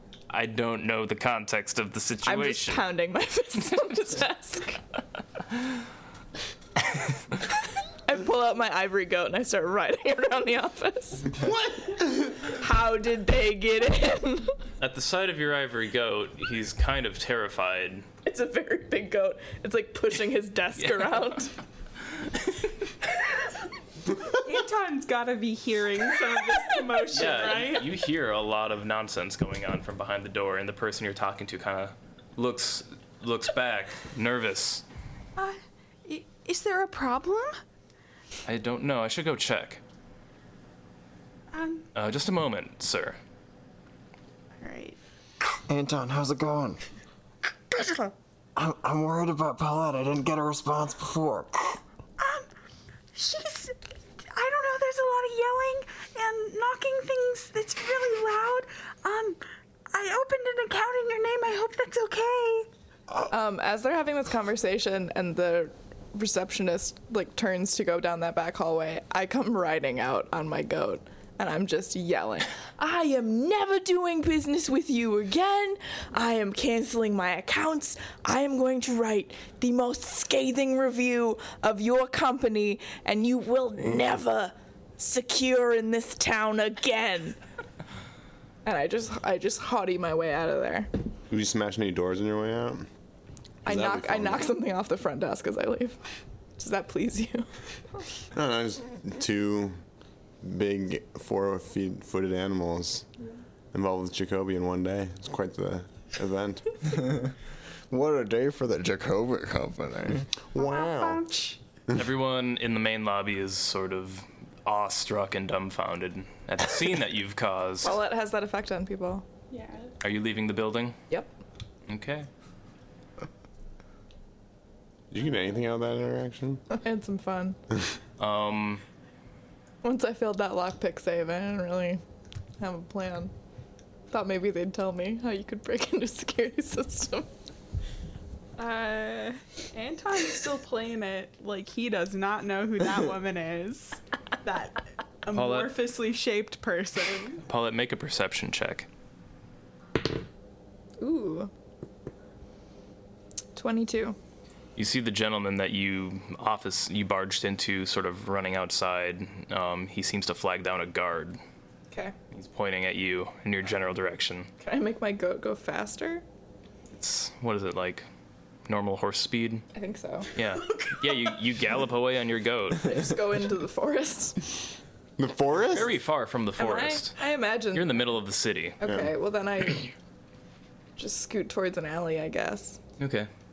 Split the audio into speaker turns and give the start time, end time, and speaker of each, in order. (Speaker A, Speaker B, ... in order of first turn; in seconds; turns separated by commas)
Speaker A: 0.3-2.9, Speaker B: 2.2-4.8, Speaker B: 8.1-11.4, Speaker C: 11.4-12.3, Speaker B: 12.4-14.6, Speaker A: 14.8-18.1, Speaker B: 18.2-21.5, Speaker A: 20.8-21.2, Speaker D: 24.3-27.9, Speaker A: 27.1-34.8, Speaker D: 35.4-37.5, Speaker A: 38.5-39.8, Speaker D: 41.5-41.9, Speaker A: 42.0-43.2, Speaker D: 44.6-45.0, Speaker E: 45.7-46.8, Speaker E: 48.6-51.8, Speaker D: 52.2-52.5, Speaker D: 53.1-62.7, Speaker B: 63.2-87.4, Speaker B: 88.7-90.9, Speaker C: 91.3-92.9, Speaker B: 93.7-96.0, Speaker C: 93.7-94.5, Speaker B: 96.6-97.5, Speaker C: 98.3-99.8, Speaker C: 100.4-103.0, Speaker C: 103.7-106.8, Speaker E: 107.0-107.3, Speaker E: 107.9-110.2, Speaker C: 110.5-111.2, Speaker D: 110.5-111.6, Speaker A: 112.0-118.0, Speaker B: 117.8-119.2, Speaker D: 119.5-120.0, Speaker A: 120.0-121.0, Speaker A: 121.9-122.3, Speaker C: 125.1-126.6, Speaker B: 126.7-127.6, Speaker A: 128.2-128.8, Speaker B: 129.8-132.0, Speaker B: 132.6-133.3, Speaker B: 134.1-137.3, Speaker D: 138.6-147.4, Speaker A: 145.3-145.7, Speaker A: 147.4-148.9, Speaker B: 151.0-151.5, Speaker B: 153.6-154.2, Speaker A: 154.8-161.4, Speaker A: 162.3-164.5, Speaker B: 164.6-166.2, Speaker A: 166.9-168.1, Speaker A: 168.7-169.7, Speaker B: 169.7-170.3, Speaker A: 170.3-173.0, Speaker B: 172.8-174.5, Speaker C: 175.2-175.9, Speaker A: 175.6-177.2, Speaker B: 176.6-178.0, Speaker A: 177.7-178.8, Speaker B: 178.8-179.9, Speaker C: 178.8-179.1, Speaker B: 181.0-182.8, Speaker A: 183.0-183.3